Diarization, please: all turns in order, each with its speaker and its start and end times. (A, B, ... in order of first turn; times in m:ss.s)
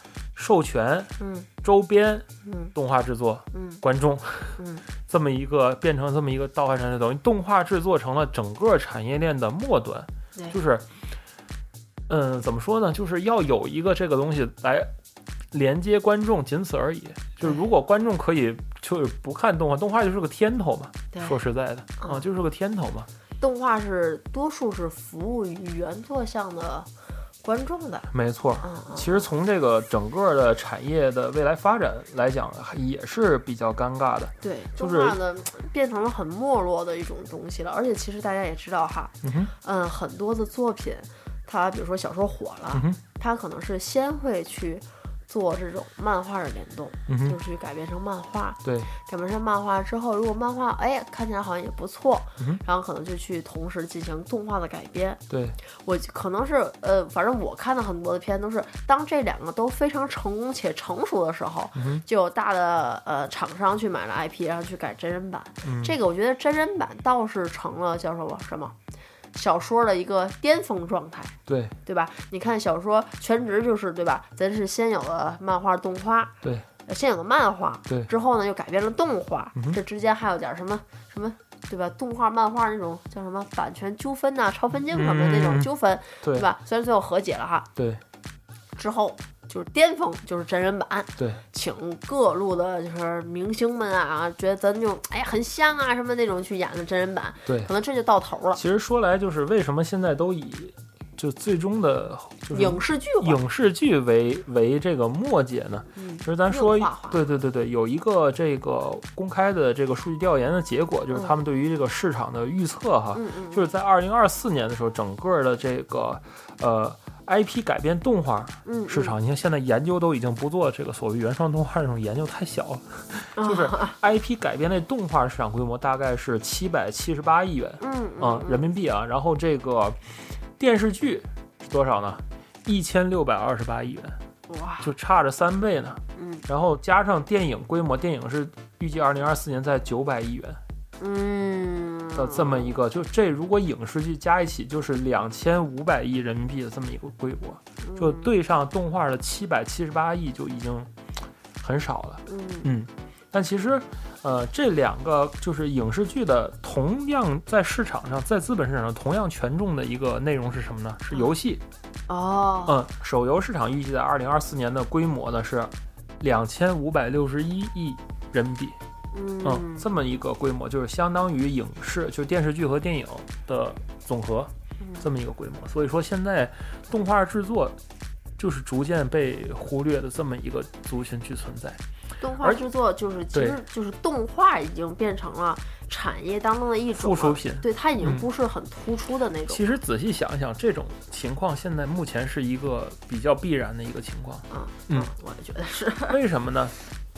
0:00.4-0:10.8 A
0:01.2-0:01.5 B
0:02.4-0:02.7 B
0:03.5-0:03.8 B
0:04.6-0:04.8 B
0:12.1-0:14.9 A
0:15.5-0:23.1 A
0:21.1-0:21.4 B
0:23.4-0:26.9 B
0:27.4-0:28.1 B
0:28.1-0:35.2 A
0:28.6-0:29.3 B
0:34.4-1:08.8 B
0:39.2-0:39.5 A
0:42.7-0:43.0 A
0:47.1-0:47.4 A
0:48.6-0:48.9 A
0:55.3-0:55.6 A
1:01.8-1:02.0 A
1:05.6-1:06.0 A
1:09.3-1:16.4 B
1:11.5-1:11.8 A
1:16.4-1:16.7 A
1:16.9-1:27.7 B
1:24.9-1:25.7 A
1:26.2-1:26.5 A
1:27.8-1:28.0 A
1:28.7-1:38.6 B
1:31.2-1:31.4 A
1:38.5-2:14.2 A
1:42.5-1:43.4 B
1:46.0-1:47.2 B
1:53.1-1:53.7 B
1:58.6-1:59.2 B
2:03.4-2:04.0 B
2:07.8-2:08.6 B
2:14.5-2:14.9 B
2:14.8-2:20.6 A
2:16.1-2:16.5 B
2:21.0-2:22.8 B
2:22.2-2:30.9 A
2:27.8-2:28.3 B
2:31.6-2:41.6 A
2:32.2-2:32.7 B
2:42.1-2:42.8 B
2:42.7-2:48.8 A
2:49.1-2:49.9 B
2:49.4-2:57.8 A
2:54.8-2:55.1 B
2:58.4-3:01.8 A
3:02.2-3:09.6 B
3:03.3-3:03.6 A
3:07.0-3:08.3 A
3:09.5-3:15.1 A
3:14.5-3:16.2 B
3:16.1-3:16.8 A